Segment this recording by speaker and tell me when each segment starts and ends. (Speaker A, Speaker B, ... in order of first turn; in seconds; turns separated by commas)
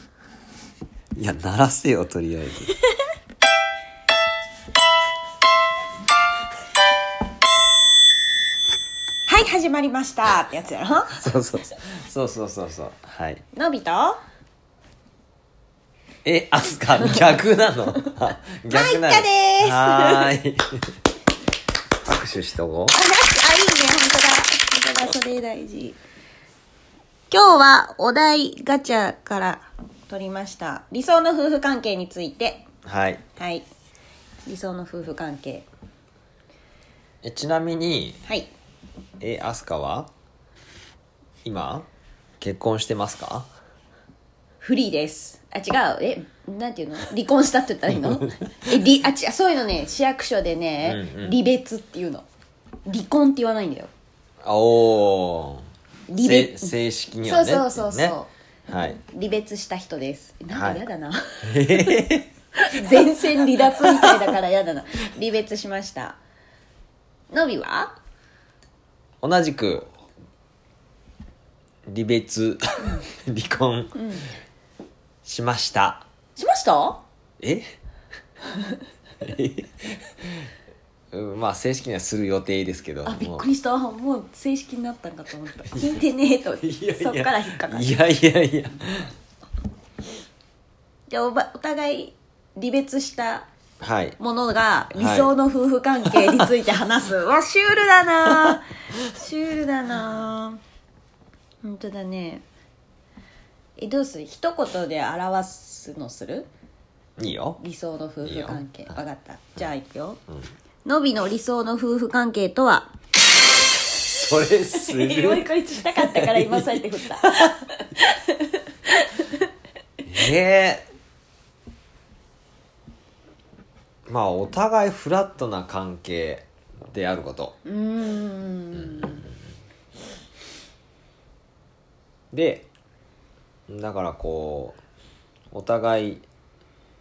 Speaker A: 1.1-2.7, Speaker B: 9.3-11.2, Speaker A: 11.1-13.4, Speaker B: 13.5-14.2, Speaker A: 16.2-20.7, Speaker B: 18.7-20.4, Speaker A: 22.0-22.9, Speaker B: 22.9-26.0, Speaker B: 27.3-32.6, Speaker A: 32.8-33.2, Speaker B: 33.4-33.6, Speaker B: 34.4-35.7, Speaker A: 37.2-38.2, Speaker A: 39.2-40.1, Speaker A: 41.4-41.9, Speaker A: 42.4-43.5, Speaker B: 44.6-52.2, Speaker A: 50.8-51.4, Speaker B: 52.9-53.9, Speaker A: 54.4-55.6, Speaker B: 56.1-58.3, Speaker A: 56.2-58.1, Speaker A: 58.7-59.0, Speaker B: 59.0-62.0, Speaker A: 60.5-60.8, Speaker A: 61.5-62.3, Speaker B: 62.6-66.2, Speaker A: 63.1-64.2, Speaker B: 67.3-68.0, Speaker A: 69.2-69.9, Speaker A: 71.8-73.9, Speaker B: 73.9-74.3, Speaker A: 75.2-76.0, Speaker B: 76.3-77.0, Speaker A: 77.4-77.6, Speaker A: 79.2-80.1, Speaker A: 81.1-83.5, Speaker B: 83.0-88.0, Speaker A: 85.7-86.0, Speaker A: 86.6-89.1, Speaker B: 91.1-93.5, Speaker A: 93.8-94.2, Speaker B: 94.2-100.6, Speaker A: 94.9-95.3, Speaker A: 96.1-96.4, Speaker B: 101.6-102.4, Speaker B: 103.8-106.5, Speaker A: 107.2-107.6, Speaker B: 107.6-110.2, Speaker A: 108.2-109.0, Speaker B: 110.8-112.9, Speaker A: 114.0-117.5, Speaker B: 114.7-119.5, Speaker A: 120.0-120.8, Speaker A: 124.1-127.5, Speaker B: 127.6-129.3, Speaker A: 128.7-129.4, Speaker A: 132.3-132.7, Speaker A: 133.7-134.8, Speaker A: 135.5-136.2